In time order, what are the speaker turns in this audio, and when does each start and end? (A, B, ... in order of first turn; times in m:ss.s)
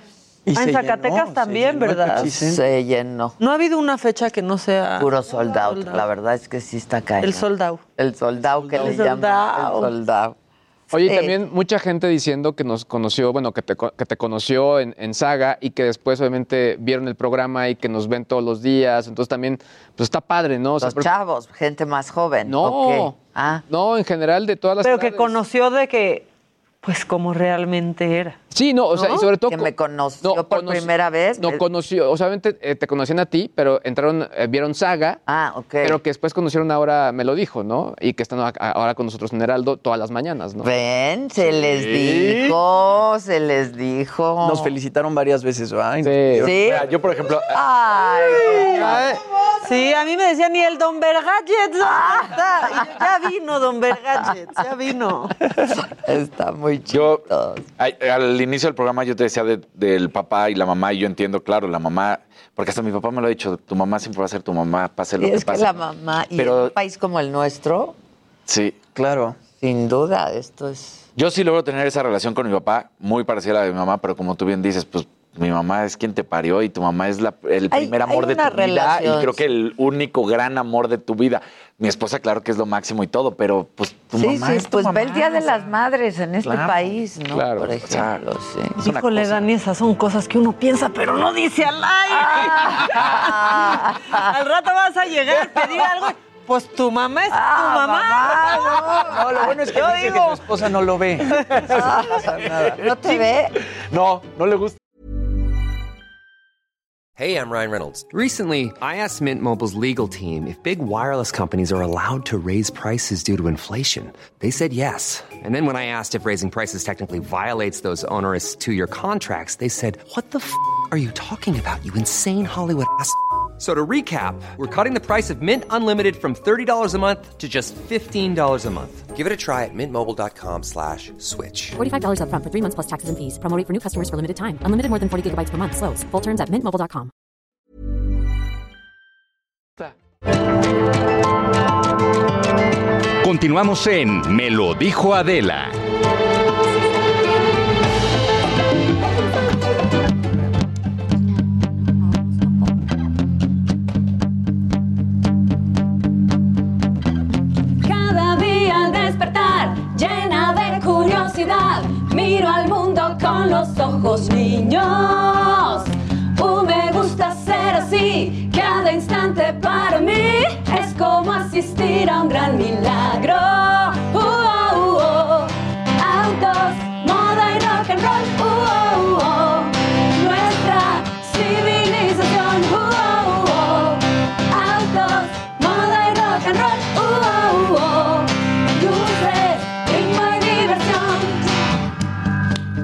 0:00.5-0:02.6 A
0:00.6-0:02.3 B
0:02.2-0:03.4 C
0:03.4-0:06.1 B
0:05.0-0:10.4 C
0:07.2-0:07.8 B
0:08.4-0:09.2 A
0:08.8-0:09.9 B
0:10.9-0:21.1 D
0:10.9-0:11.4 C
0:20.8-0:23.6 C
0:22.5-0:23.2 D
0:23.7-0:25.3 D
0:24.8-0:26.3 B
0:26.8-0:28.4 B
0:28.5-0:35.2 D
0:28.9-0:31.6 C
0:35.3-0:36.0 C
0:35.8-0:40.7 D
0:40.6-0:44.7 C
0:41.4-0:42.6 E
0:44.4-0:46.5 A
0:46.0-0:46.5 D
0:46.4-0:46.9 C
0:46.5-0:47.6 E
0:47.5-0:49.1 C
0:48.4-0:55.3 B
0:51.8-0:52.9 C
0:55.8-0:57.6 C
0:56.9-0:57.2 E
0:57.8-1:05.8 E
1:05.2-1:08.0 C
1:06.4-1:06.7 E
1:08.5-1:08.8 E
1:08.9-1:09.4 A
1:09.6-1:11.0 C
1:11.2-1:25.6 E
1:17.7-1:19.4 C
1:24.2-1:28.8 C
1:26.4-1:26.9 E
1:27.3-1:27.7 D
1:27.8-1:28.1 E
1:28.8-1:33.4 B
1:28.8-1:29.4 E
1:32.1-1:34.3 C
1:34.1-1:39.1 B
1:37.3-1:39.6 C
1:39.0-1:42.7 A
1:41.7-1:43.5 C
1:43.9-1:44.8 E
1:47.2-2:11.8 F
2:11.8-2:17.1 G
2:23.2-2:25.8 H
2:31.8-2:32.4 I
2:37.8-3:11.5 I